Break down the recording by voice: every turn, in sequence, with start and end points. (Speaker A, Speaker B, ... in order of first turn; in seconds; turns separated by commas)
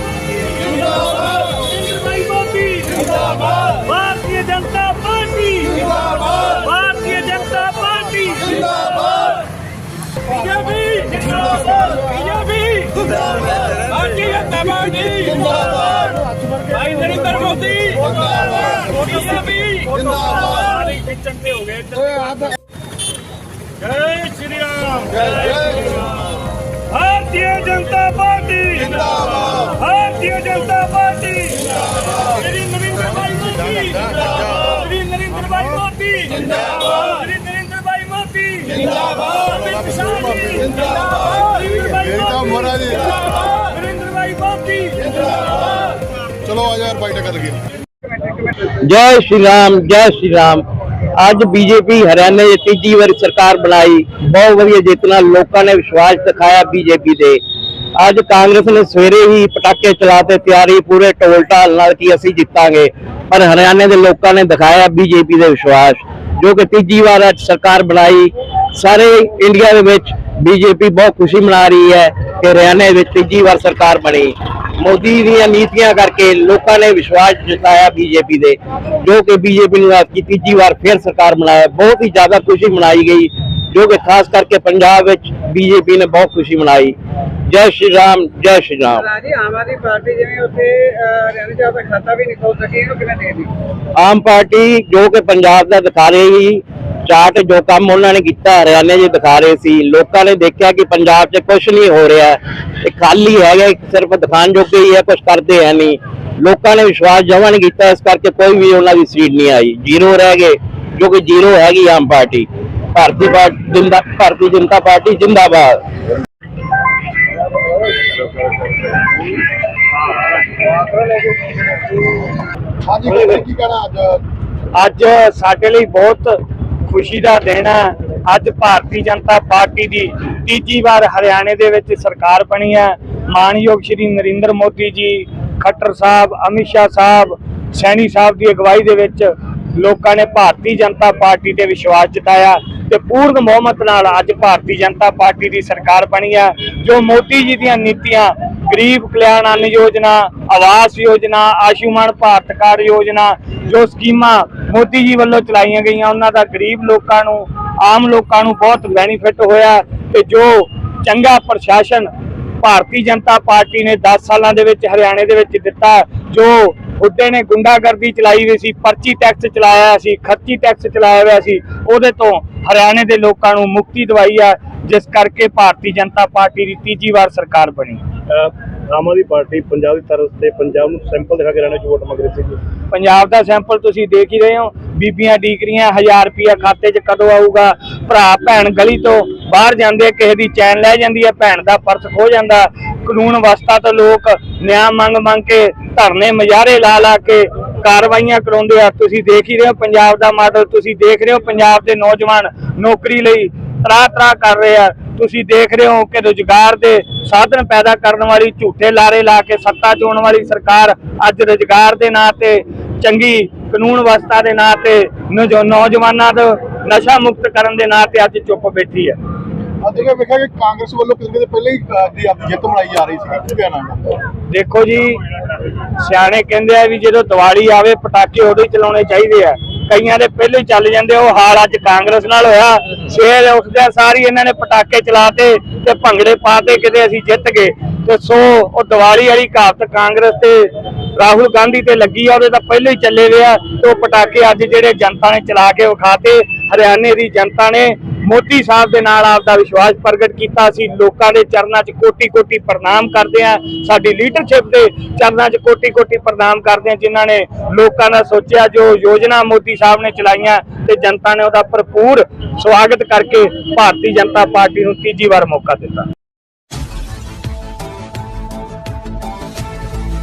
Speaker A: 1.5-3.1, Speaker A: 3.6-8.6, Speaker A: 10.4-12.9, Speaker A: 13.8-15.9, Speaker A: 16.7-22.5, Speaker A: 23.8-26.0, Speaker A: 26.9-31.7, Speaker A: 32.4-33.5, Speaker B: 33.8-34.3, Speaker A: 34.6-38.8, Speaker B: 39.5-40.7, Speaker A: 41.3-41.9, Speaker B: 41.9-43.2, Speaker A: 43.6-45.0, Speaker B: 46.4-47.6, Speaker C: 48.7-57.4, Speaker C: 58.0-87.0, Speaker C: 87.5-89.1, Speaker D: 89.1-93.5, Speaker C: 94.0-115.8, Speaker B: 122.9-124.2, Speaker A: 124.7-162.1, Speaker A: 162.6-178.0, Speaker E: 178.3-182.6, Speaker A: 182.9-219.2, Speaker B: 219.8-224.2, Speaker A: 224.5-225.2, Speaker A: 225.9-266.1